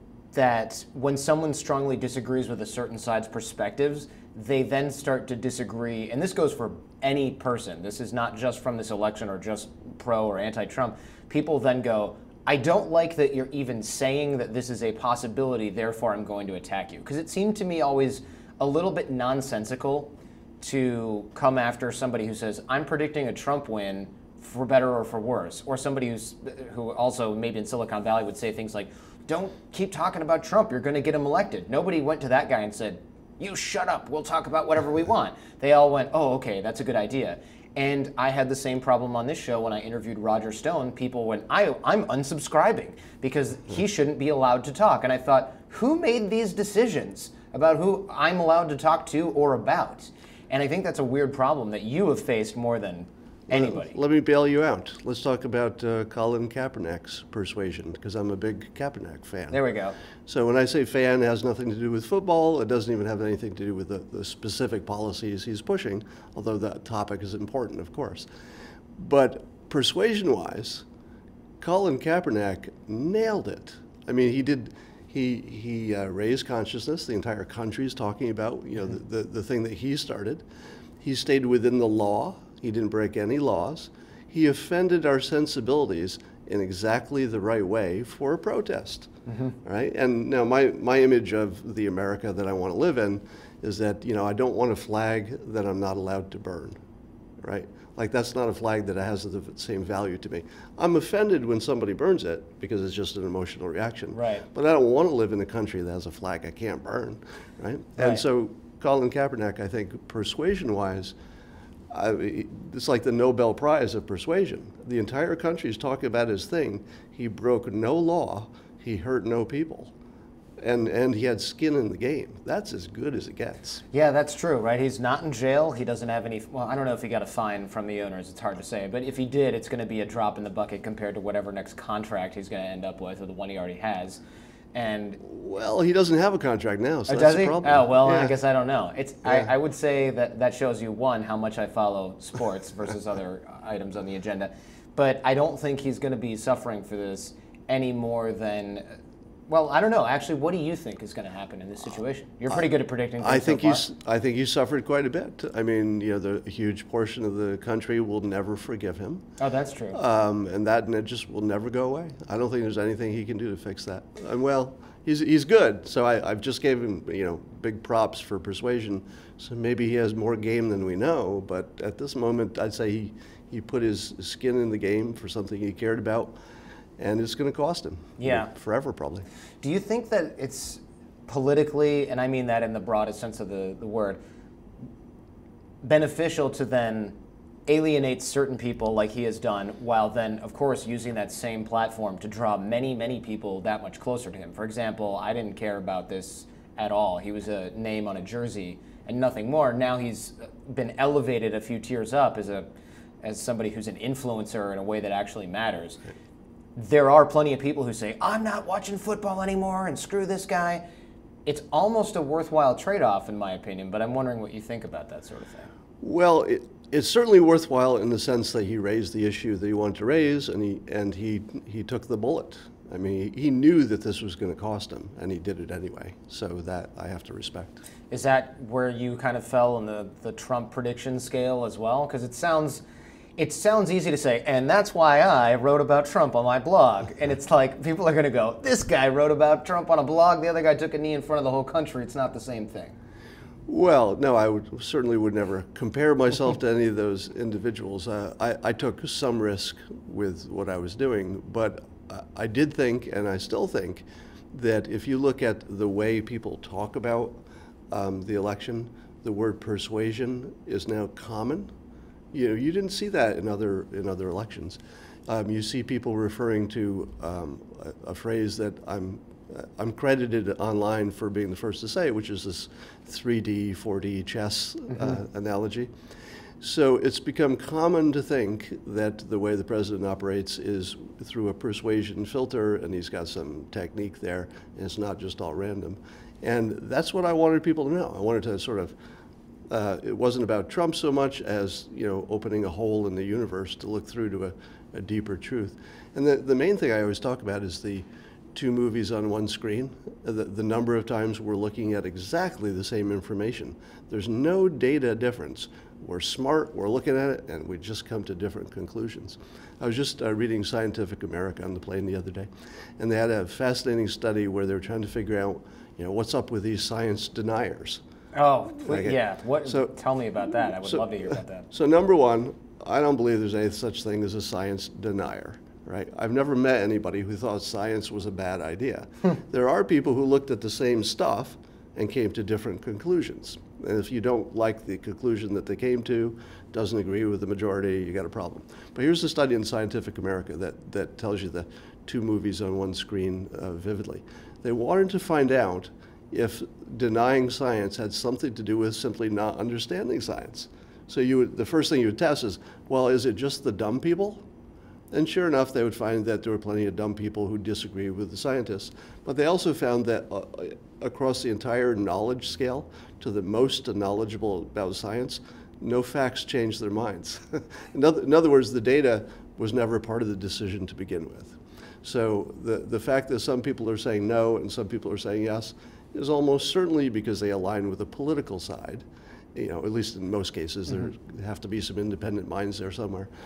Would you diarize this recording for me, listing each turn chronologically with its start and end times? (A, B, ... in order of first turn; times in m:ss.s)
0:00.3-0:54.0 A
0:53.5-0:59.6 B
0:59.5-1:00.0 A
1:00.2-1:08.3 B
1:09.0-1:10.8 B
1:11.6-1:20.4 B
1:21.0-1:29.1 B
1:29.3-1:29.6 A
1:29.6-1:36.8 B
1:37.4-1:51.1 B
1:44.1-1:44.4 A
1:51.9-1:59.9 B
2:00.6-2:03.8 B
2:03.9-2:14.2 A
2:14.7-2:15.2 A
2:15.2-2:18.3 B
2:17.1-2:28.8 A
2:19.2-2:19.5 B
2:29.5-2:33.8 A
2:32.5-2:39.2 B
2:39.4-2:40.0 A
2:39.9-2:56.3 B
2:57.0-2:59.3 B
2:58.2-2:58.5 A
2:59.6-3:04.2 A
3:05.8-3:07.2 A
3:07.7-3:22.7 A
3:23.2-3:26.0 A
3:26.8-3:30.8 A
3:31.4-3:35.7 A
3:36.0-3:47.8 B
3:48.1-3:52.8 A
3:53.4-4:02.9 A
4:03.7-4:21.7 B
4:22.3-4:35.9 B
4:36.6-4:48.9 B
4:49.7-5:18.0 B
5:18.3-5:21.7 A
5:18.8-5:19.9 B
5:20.7-5:54.4 B
5:55.1-6:23.3 B